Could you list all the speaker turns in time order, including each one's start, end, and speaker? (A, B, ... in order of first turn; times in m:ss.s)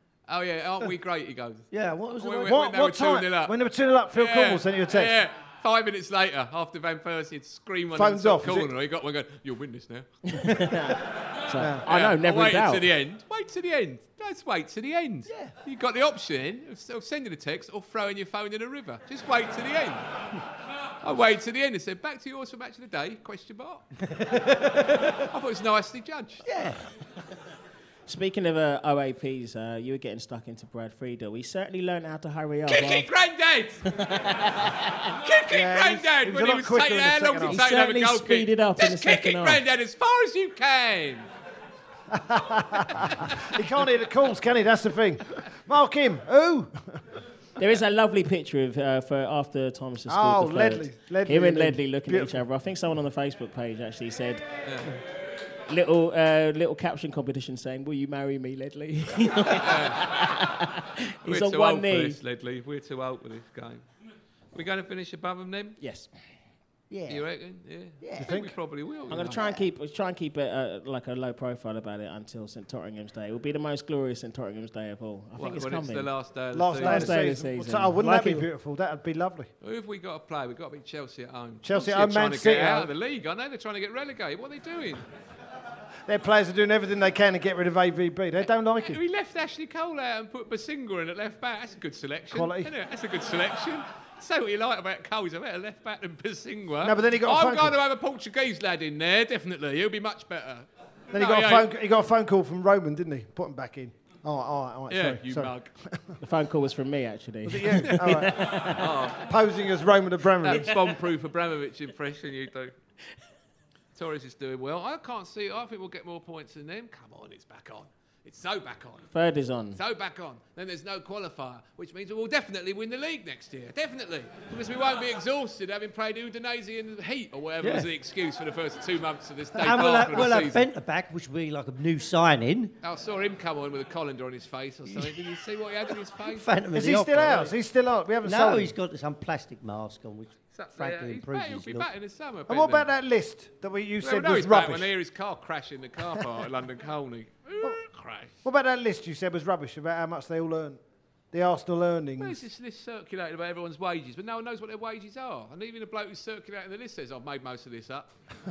0:00.3-0:03.6 A
0:01.7-0:02.6 B
0:02.4-0:05.2 C
0:04.1-0:10.1 A
0:07.9-0:08.7 C
0:10.3-0:12.9 D
0:11.6-0:11.8 C
0:11.9-0:20.0 A
0:15.3-0:15.5 B
0:21.0-0:23.9 A
0:24.1-0:25.3 B
0:25.3-0:26.4 A
0:26.5-0:26.8 B
0:28.1-0:33.1 D
0:32.7-0:33.8 A
0:33.9-0:35.0 D
0:35.1-0:41.3 A
0:35.5-0:37.6 C
0:37.4-0:39.6 D
0:42.1-0:47.0 C
0:47.6-0:54.4 D
0:50.1-0:52.4 C
0:54.6-0:54.9 A
0:55.7-1:02.2 D
0:59.6-1:00.1 A
1:01.3-1:03.8 A
1:04.5-1:05.8 A
1:05.8-1:06.1 D
1:06.9-1:07.3 B
1:07.1-1:09.4 A
1:08.0-1:08.3 B
1:08.2-1:08.6 C
1:09.1-1:16.1 D
1:09.2-1:09.6 B
1:15.4-1:17.2 A
1:16.5-1:19.5 C
1:16.8-1:18.4 D
1:19.6-1:25.0 A
1:21.6-1:22.9 C
1:26.1-1:29.0 C
1:28.8-1:41.7 A
1:32.3-1:32.7 C
1:36.8-1:37.8 C
1:41.1-1:46.2 C
1:44.9-1:45.7 A
1:46.2-1:48.9 D
1:47.4-1:50.9 C
1:48.0-1:49.3 A
1:50.4-1:52.7 A
1:54.0-1:59.1 A
1:59.1-1:59.8 D
1:59.7-2:10.7 A
2:07.6-2:07.9 B
2:09.6-2:12.7 B
2:12.8-2:16.6 A
2:14.9-2:15.2 B
2:16.2-2:17.5 B
2:16.7-2:18.7 C
2:18.2-2:21.9 B
2:20.5-2:22.9 A
2:22.5-2:24.9 C
2:24.0-2:28.3 A
2:28.4-2:30.8 C
2:31.3-2:32.4 C
2:32.2-2:38.1 A